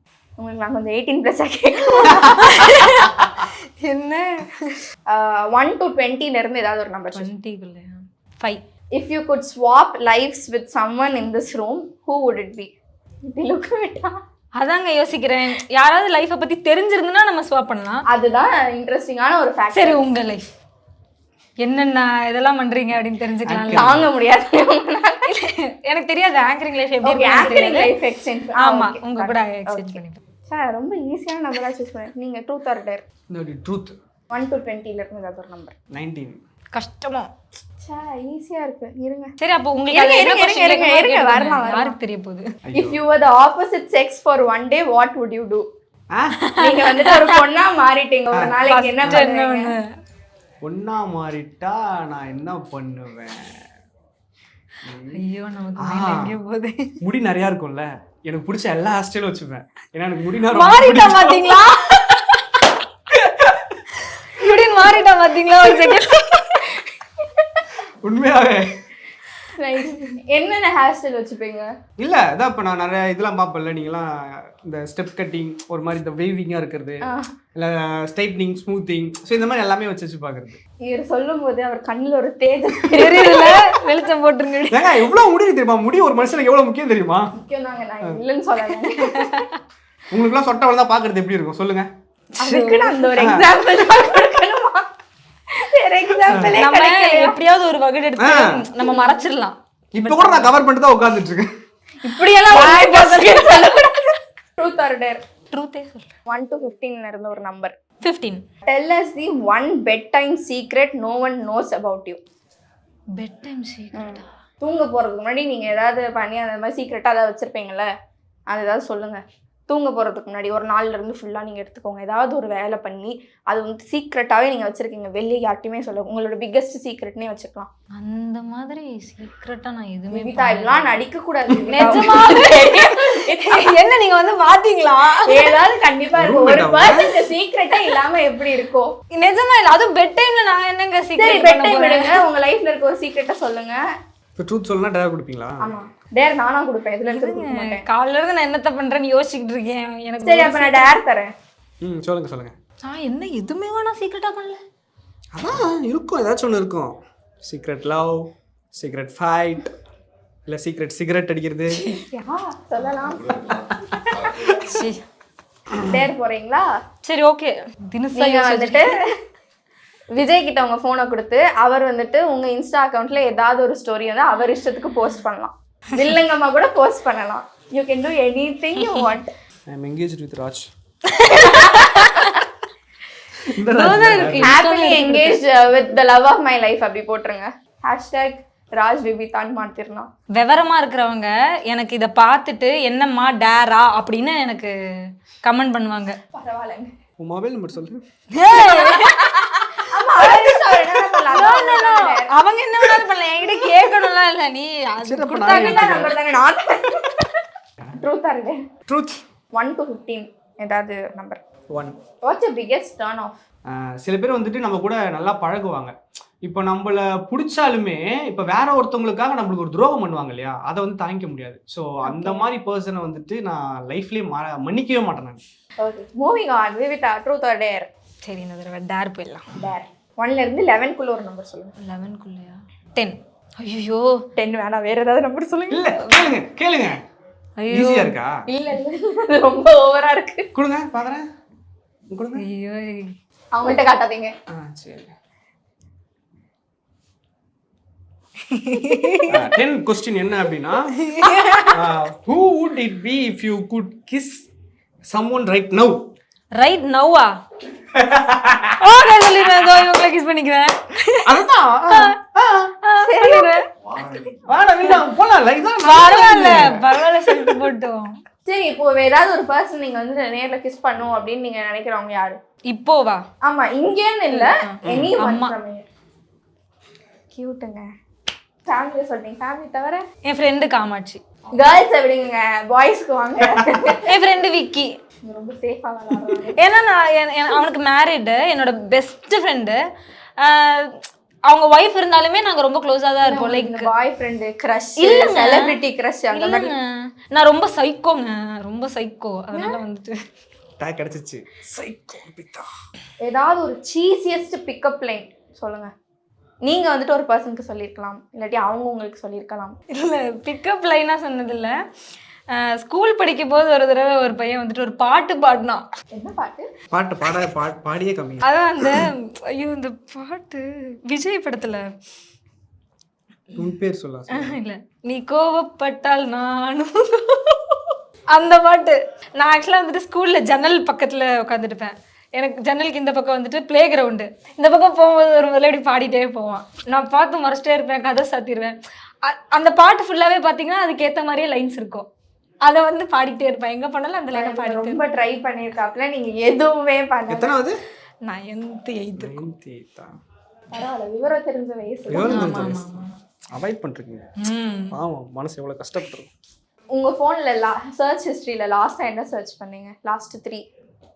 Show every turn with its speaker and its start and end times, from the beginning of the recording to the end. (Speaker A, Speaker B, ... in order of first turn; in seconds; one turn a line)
Speaker A: 0.4-3.0
Speaker B: 1.9-4.9
Speaker C: 2.1-2.7
Speaker A: 5.1-7.3
Speaker B: 7.1-8.6
Speaker A: 8.9-12.7
Speaker A: 13.3-14.2
Speaker B: 14.6-18.1
Speaker A: 18.1-20.0
Speaker B: 19.7-20.5
Speaker B: 21.6-24.0
Speaker C: 23.5-24.1
Speaker A: 23.7-25.3
Speaker B: 25.3-27.9
Speaker A: 27.0-33.0
Speaker B: 28.6-30.2
Speaker C: 33.3-34.0
Speaker A: 34.3-35.7
Speaker C: 35.9-36.4
Speaker B: 36.7-37.3
Speaker A: 37.8-39.3
Speaker B: 39.4-42.5
Speaker A: 39.9-42.0
Speaker C: 42.7-43.0
Speaker A: 42.8-45.6
Speaker C: 46.1-46.4
Speaker B: 46.4-47.4
Speaker A: 46.6-49.7
Speaker C: 48.3-49.2
Speaker B: 48.7-49.8
Speaker C: 50.6-53.6
Speaker C: 54.8-55.2
Speaker B: 55.1-57.0
Speaker C: 55.8-56.3
Speaker C: 57.0-61.7
Speaker B: 60.5-62.6
Speaker C: 63.1-63.8
Speaker B: 64.0-66.7
Speaker C: 68.0-68.8
Speaker A: 69.6-71.7
Speaker C: 72.0-80.6
Speaker A: 80.8-83.8
Speaker B: 82.9-85.1
Speaker C: 84.7-87.3
Speaker A: 87.3-89.4
Speaker B: 88.9-89.6
Speaker C: 90.1-91.9
Speaker B: 92.4-93.1
Speaker A: 92.4-94.9
Speaker C: 93.2-93.7
Speaker A: 95.5-97.4
Speaker C: 96.3-96.5
Speaker B: 96.5-100.5
Speaker C: 98.2-98.6
Speaker A: 98.8-99.2
Speaker C: 99.9-101.5
Speaker A: 102.0-105.2
Speaker B: 102.0-104.1
Speaker B: 105.5-106.1
Speaker A: 106.2-107.7
Speaker B: 108.0-108.4
Speaker A: 108.7-112.2
Speaker B: 113.1-114.2
Speaker A: 113.9-117.9
Speaker A: 118.5-127.7
Speaker B: 127.9-131.0
Speaker A: 130.1-133.8
Speaker B: 131.6-135.6
Speaker A: 135.2-138.9
Speaker C: 136.2-137.3
Speaker B: 139.1-142.2
Speaker A: 141.2-143.8
Speaker C: 144.4-145.7
Speaker A: 145.6-147.8
Speaker B: 147.1-150.9
Speaker A: 150.2-151.3
Speaker C: 151.8-152.5
Speaker B: 152.8-154.6
Speaker C: 155.3-159.7
Speaker C: 160.5-161.9
Speaker B: 161.8-162.0
Speaker A: 162.1-164.6
Speaker B: 164.6-165.0
Speaker A: 165.8-166.7
Speaker B: 167.0-168.9
Speaker A: 168.1-169.1
Speaker A: 170.1-179.3
Speaker B: 178.8-179.1
Speaker C: 179.7-180.7
Speaker B: 181.1-182.4
Speaker A: 181.3-182.3
Speaker C: 183.5-184.6
Speaker B: 183.7-185.4
Speaker A: 184.4-190.1
Speaker B: 190.3-194.7
Speaker B: 195.4-196.2
Speaker A: 196.3-197.0
Speaker C: 197.2-198.0
Speaker B: 198.3-199.6
Speaker A: 198.6-202.3
Speaker B: 200.1-206.1
Speaker C: 205.0-206.1
Speaker A: 205.4-207.3
Speaker A: 208.0-208.6
Speaker C: 208.9-209.2
Speaker A: 209.5-211.4
Speaker C: 211.7-212.0
Speaker A: 212.2-213.4
Speaker C: 213.7-225.4
Speaker A: 222.0-222.4
Speaker A: 225.8-227.9
Speaker B: 228.2-229.5
Speaker A: 229.6-231.7
Speaker B: 231.8-234.2
Speaker A: 234.3-236.0
Speaker C: 235.7-237.0
Speaker B: 237.6-238.2
Speaker C: 237.7-238.4
Speaker A: 238.5-240.5
Speaker C: 240.5-241.3
Speaker C: 242.1-242.4
Speaker B: 242.3-243.2
Speaker A: 243.5-244.3
Speaker C: 244.5-245.1
Speaker B: 248.5-249.4
Speaker C: 249.3-251.0
Speaker B: 251.0-251.8
Speaker C: 251.7-254.5
Speaker C: 255.1-256.1
Speaker B: 256.6-257.4
Speaker C: 257.9-258.8
Speaker B: 258.8-262.1
Speaker C: 261.2-262.7
Speaker B: 262.8-264.1
Speaker A: 263.0-263.6
Speaker C: 264.4-267.6
Speaker B: 265.8-268.2
Speaker A: 268.4-272.4
Speaker B: 272.7-273.2
Speaker A: 273.4-275.8
Speaker B: 274.3-275.6
Speaker C: 274.8-275.1
Speaker A: 277.3-277.9
Speaker A: 278.6-280.0
Speaker B: 280.2-281.2
Speaker A: 281.5-284.1
Speaker B: 284.0-284.9
Speaker A: 285.2-286.6
Speaker B: 286.6-289.8
Speaker B: 290.4-293.9
Speaker A: 293.2-296.7
Speaker B: 295.0-295.8
Speaker B: 296.3-300.2
Speaker A: 299.5-299.8
Speaker C: 300.8-302.7
Speaker A: 303.2-305.9
Speaker A: 306.6-309.8
Speaker B: 309.9-311.8
Speaker B: 312.5-315.8
Speaker A: 316.1-316.7
Speaker C: 316.9-319.0
Speaker B: 318.4-321.9
Speaker C: 323.5-324.6
Speaker B: 324.3-342.1
Speaker B: 342.6-345.2
Speaker A: 344.3-347.6
Speaker C: 347.3-347.8
Speaker B: 348.2-349.5
Speaker C: 349.2-350.2
Speaker A: 350.7-352.7
Speaker C: 352.1-354.3
Speaker B: 352.2-353.1
Speaker B: 354.4-354.9
Speaker C: 354.9-356.3
Speaker A: 356.9-360.6